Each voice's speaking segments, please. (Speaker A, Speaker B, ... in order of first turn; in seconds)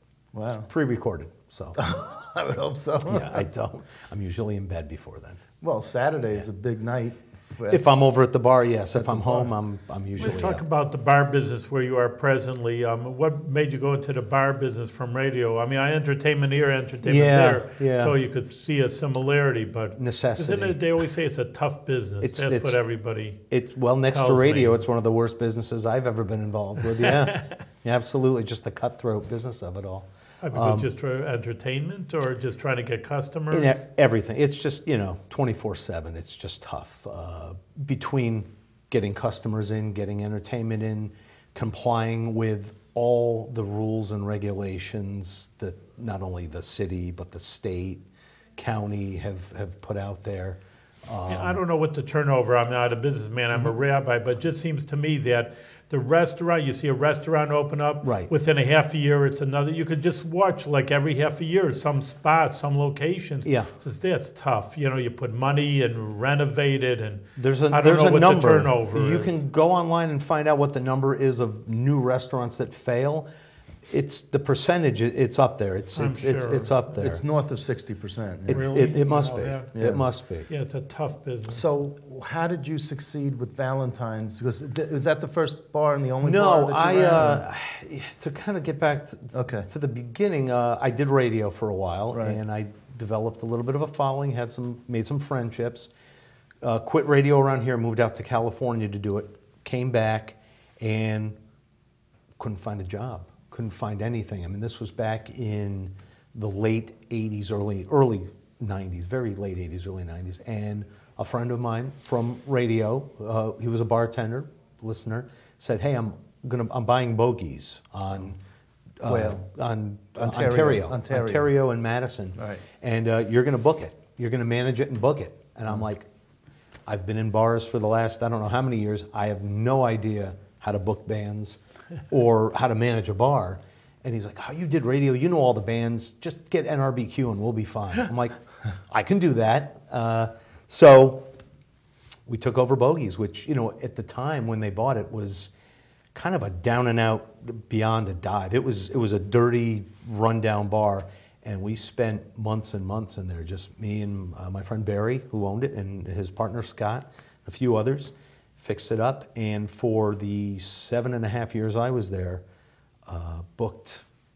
Speaker A: 0.3-0.7, 1.8-3.5, 5.6-7.8, 8.9-9.5, 77.0-78.9, 79.7-80.0, 81.5-87.4, 89.3-89.7, 92.1-92.4, 119.0-119.5, 120.2-121.5, 122.4-122.6
Speaker B: 0.5-1.8, 3.0-5.4, 7.7-10.6, 17.0-18.1, 19.9-20.8, 22.2-22.8, 23.5-30.9, 33.5-48.0, 48.5-51.6, 58.0-58.3, 63.4-63.7, 67.3-73.3, 73.8-77.2, 78.5-80.5, 86.2-95.9, 96.6-101.4, 102.4-118.4, 119.0-126.1, 126.8-141.3, 142.3-145.5, 146.1-162.4, 163.1-164.1
Speaker C: 10.2-23.4, 24.1-24.8, 27.0-27.6, 30.4-33.7, 51.3-69.4, 75.9-76.8, 78.5-79.7, 80.5-81.6